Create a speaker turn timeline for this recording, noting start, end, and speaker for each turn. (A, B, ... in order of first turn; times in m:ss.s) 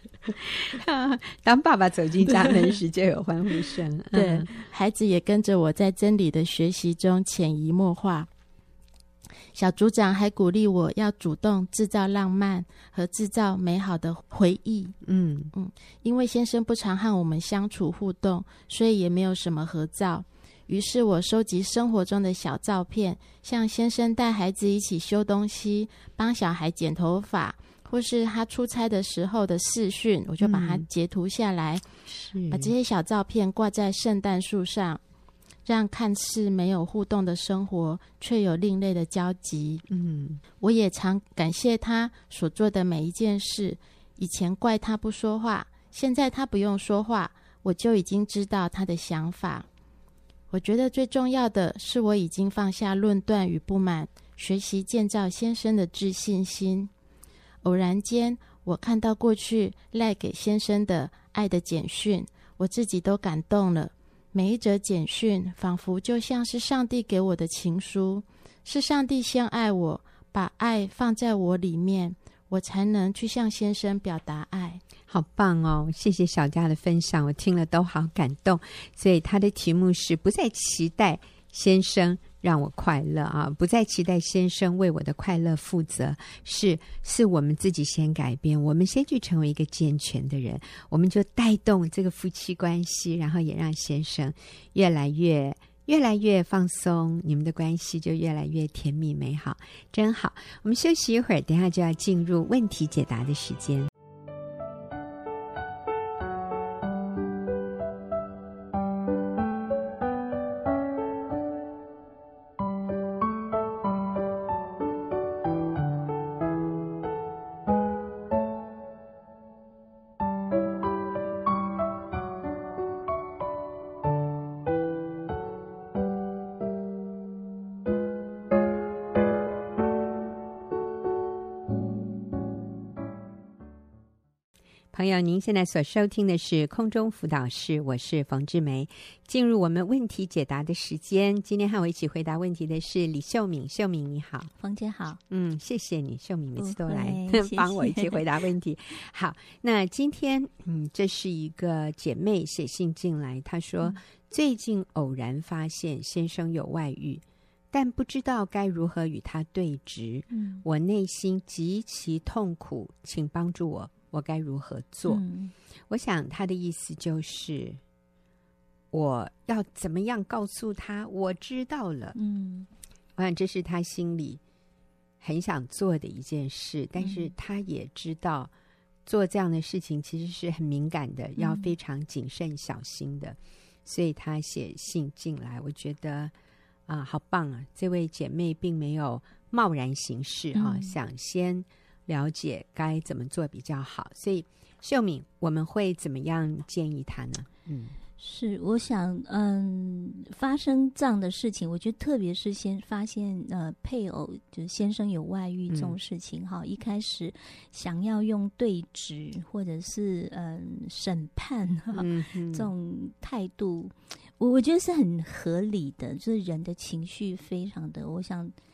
0:00.4-0:04.5 A
0:04.2-0:08.3 B
0:09.5-0:15.0 B
0:15.0-0:15.5 A
0:15.5-0:31.8 B
0:30.4-0:30.8 A
0:32.1-0:32.7 A
0:32.5-0:35.0 B
0:35.6-0:39.8 B
0:39.9-0:40.4 A
0:40.6-0:49.7 B
0:50.5-0:56.9 B
0:57.6-1:14.8 B
1:15.1-1:43.9 A
2:14.9-2:24.5 A
2:24.6-2:25.2 C
2:25.3-2:45.2 A
2:26.6-2:28.3 C
2:40.3-2:40.6 C
2:45.1-2:45.5 C
2:45.9-2:47.8 A
2:48.9-2:52.2 A
2:52.2-2:52.7 C
2:53.2-2:54.4 A
2:55.2-2:58.5 A
2:57.0-2:57.3 C
2:59.1-3:06.3 A
3:01.4-3:01.7 C
3:06.9-3:18.0 A
3:10.6-3:11.0 C
3:18.2-3:38.5 C
3:25.7-3:26.0 A
3:31.9-3:32.7 A